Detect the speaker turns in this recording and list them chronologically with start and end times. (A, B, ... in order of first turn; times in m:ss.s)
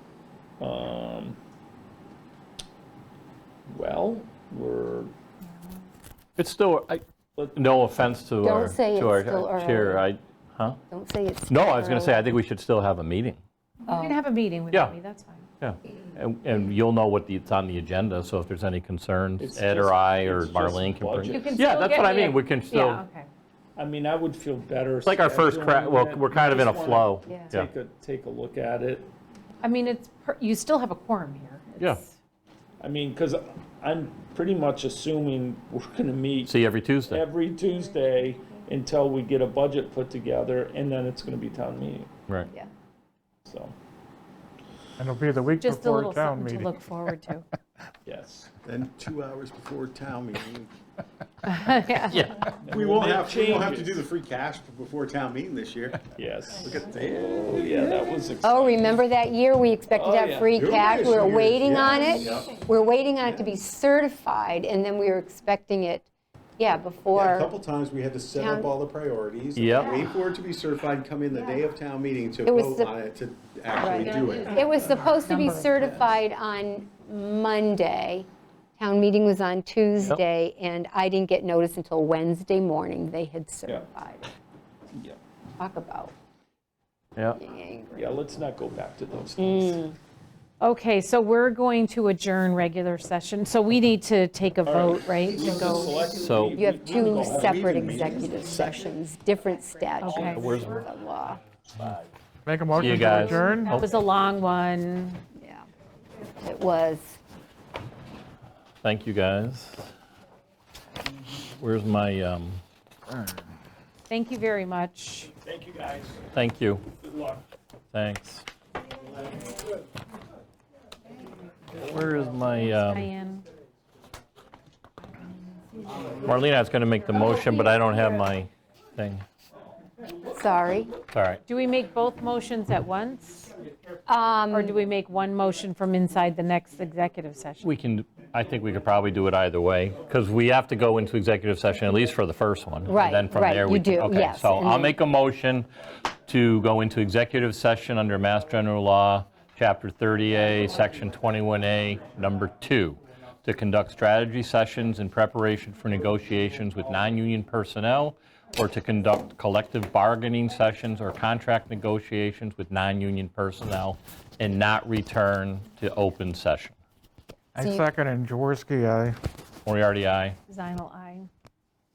0:00.6-0:01.4 A
0:03.7-0:05.2 A
0:06.4-0:07.0 B
0:07.4-0:07.7 A
0:07.5-0:10.8 B
0:08.4-0:10.1 C
0:10.9-0:12.3 C
0:11.5-0:13.4 B
0:13.9-0:14.2 C
0:13.9-0:15.5 D
0:15.6-0:23.0 B
0:19.4-0:21.5 A
0:21.3-0:23.3 D
0:23.8-0:29.1 A
0:25.0-0:27.7 B
0:27.3-0:27.5 C
0:29.6-0:32.1 D
0:32.8-0:36.5 A
0:36.5-0:37.2 B
0:37.1-0:42.1 A
0:43.4-0:43.8 A
0:45.0-0:46.8 E
0:45.6-0:47.5 D
0:48.0-0:48.5 A
0:48.6-0:50.7 F
0:51.4-0:52.1 D
0:51.9-0:52.3 C
0:52.1-0:52.5 B
0:52.6-0:54.1 A
0:52.6-0:57.6 F
0:56.1-0:59.0 A
0:58.4-1:06.1 C
0:59.9-1:00.6 A
1:00.6-1:02.6 F
1:06.6-1:07.5 C
1:07.1-1:14.7 F
1:08.3-1:08.7 C
1:09.6-1:10.0 B
1:09.8-1:10.2 C
1:12.4-1:13.0 C
1:13.8-1:24.3 C
1:14.0-1:15.9 D
1:24.9-1:25.2 A
1:25.6-1:26.1 C
1:27.4-1:28.2 C
1:27.9-1:29.8 A
1:29.4-1:30.0 C
1:30.6-1:35.9 D
1:34.6-1:37.6 A
1:36.2-1:36.6 B
1:36.5-1:41.4 C
1:37.4-1:38.9 F
1:40.0-1:40.6 D
1:40.2-1:40.8 B
1:41.8-1:42.0 A
1:42.5-1:43.8 E
1:42.8-1:43.8 B
1:42.8-1:45.2 D
1:45.4-1:45.7 C
1:46.4-1:47.2 C
1:48.8-1:49.9 B
1:51.6-1:53.4 B
1:54.1-1:55.4 D
1:55.4-1:56.3 A
1:56.3-1:56.9 B
1:57.0-1:57.4 A
1:57.9-1:58.4 B
2:01.7-2:03.1 B
2:02.8-2:03.4 D
2:06.2-2:09.2 B
2:10.3-2:10.9 C
2:11.1-2:11.4 B
2:11.5-2:13.5 D
2:14.1-2:14.8 C
2:14.5-2:17.7 D
2:17.6-2:25.7 B
2:22.9-2:25.0 C
2:26.3-2:46.8 B
2:47.6-2:47.9 C
2:47.6-2:49.2 E
2:49.7-2:50.4 B
2:50.5-2:51.3 D